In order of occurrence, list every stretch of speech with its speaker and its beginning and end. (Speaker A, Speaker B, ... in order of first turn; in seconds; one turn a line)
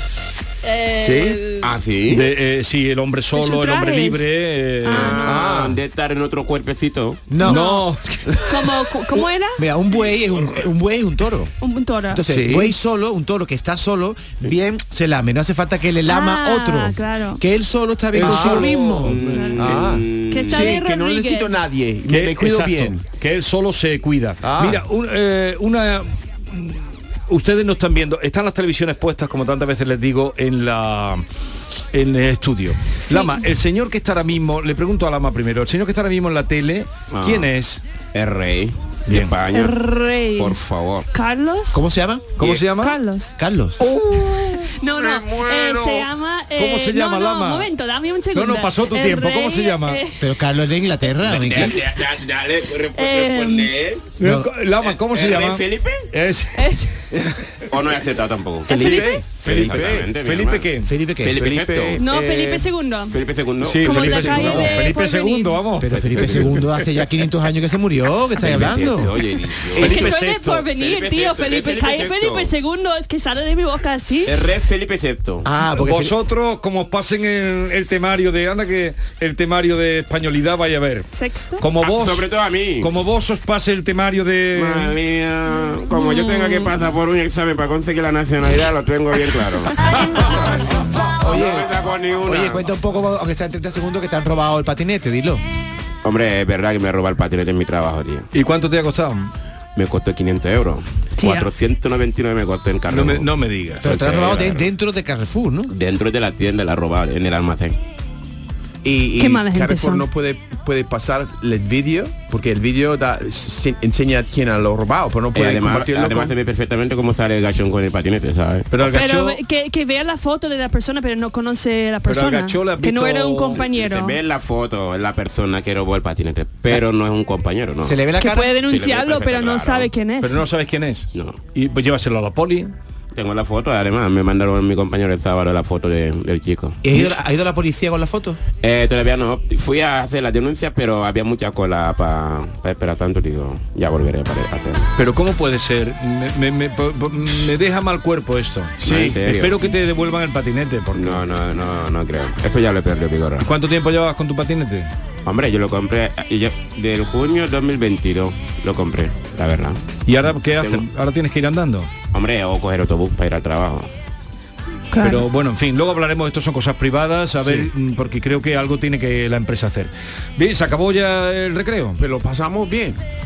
Speaker A: 0.6-1.7
Speaker B: 0.9-1.4
Speaker C: 1.6-2.3
Speaker D: 2.1-5.3
Speaker A: 3.3-4.2
Speaker A: 4.8-5.4
Speaker C: 4.9-7.2
Speaker B: 5.3-5.8
Speaker E: 7.3-7.7
Speaker A: 7.4-7.8
Speaker D: 7.4-8.3
Speaker A: 8.4-9.6
Speaker E: 9.6-11.5
Speaker A: 11.6-12.2
Speaker E: 12.1-19.2
Speaker B: 12.3-12.7
Speaker A: 16.1-17.4
Speaker D: 18.1-19.8
Speaker B: 18.2-18.8
Speaker C: 18.9-20.8
Speaker A: 19.3-21.6
Speaker B: 19.6-23.1
Speaker D: 22.1-31.2
Speaker B: 24.4-24.8
Speaker D: 31.9-37.8
Speaker A: 33.0-33.4
Speaker C: 37.1-37.5
Speaker C: 38.1-39.8
Speaker D: 39.1-39.4
Speaker A: 39.5-40.6
Speaker C: 40.4-41.1
Speaker A: 41.1-41.8
Speaker E: 41.7-42.4
Speaker D: 42.4-43.0
Speaker A: 42.8-50.2
Speaker E: 43.4-43.8
Speaker D: 43.8-44.3
Speaker B: 44.9-46.0
Speaker D: 46.6-47.7
Speaker D: 48.3-50.0
Speaker E: 50.2-51.8
Speaker C: 51.2-54.1
Speaker A: 53.0-53.7
Speaker D: 54.2-56.6
Speaker E: 54.2-54.5
Speaker C: 54.8-56.1
Speaker A: 56.5-56.9
Speaker C: 57.7-60.7
Speaker A: 58.7-59.2
Speaker B: 58.7-60.1
Speaker D: 58.7-60.9
Speaker E: 60.8-61.5
Speaker C: 61.2-62.0
Speaker B: 61.4-62.7
Speaker A: 62.0-63.1
Speaker C: 63.1-64.9
Speaker D: 63.6-66.9
Speaker A: 63.8-65.6
Speaker E: 65.8-69.2
Speaker C: 65.9-66.7
Speaker C: 68.4-70.1
Speaker D: 69.7-70.7
Speaker A: 69.8-74.3
Speaker C: 70.8-72.5
Speaker C: 74.2-75.5
Speaker E: 75.4-76.2
Speaker D: 75.7-82.3
Speaker A: 81.1-81.6
Speaker C: 81.8-82.9
Speaker D: 82.8-84.9
Speaker C: 84.5-89.9
Speaker A: 85.9-86.7
Speaker E: 91.2-95.4
Speaker C: 91.2-92.7
Speaker C: 96.0-98.3
Speaker D: 98.3-99.3
Speaker C: 99.8-103.3
Speaker A: 101.2-101.5
Speaker D: 102.9-104.7
Speaker E: 103.8-105.7
Speaker C: 105.7-107.8
Speaker B: 108.8-116.3
Speaker A: 109.2-110.0
Speaker C: 115.3-119.0
Speaker D: 118.7-119.4
Speaker A: 118.9-124.2
Speaker D: 122.0-123.6
Speaker C: 123.5-128.0
Speaker E: 127.8-128.5
Speaker A: 128.2-130.4
Speaker C: 128.7-129.9
Speaker D: 130.2-132.7
Speaker C: 131.1-131.4
Speaker C: 133.1-137.1
Speaker E: 136.8-138.4
Speaker C: 138.6-144.9
Speaker D: 144.9-151.2
Speaker B: 148.8-149.2
Speaker C: 148.8-149.6
Speaker C: 150.9-153.5
Speaker D: 153.4-154.9
Speaker C: 155.2-159.9
Speaker D: 160.1-161.9
Speaker C: 160.6-160.8
Speaker C: 162.1-163.9
Speaker A: 164.9-165.2
Speaker D: 165.0-172.0
Speaker B: 172.0-173.0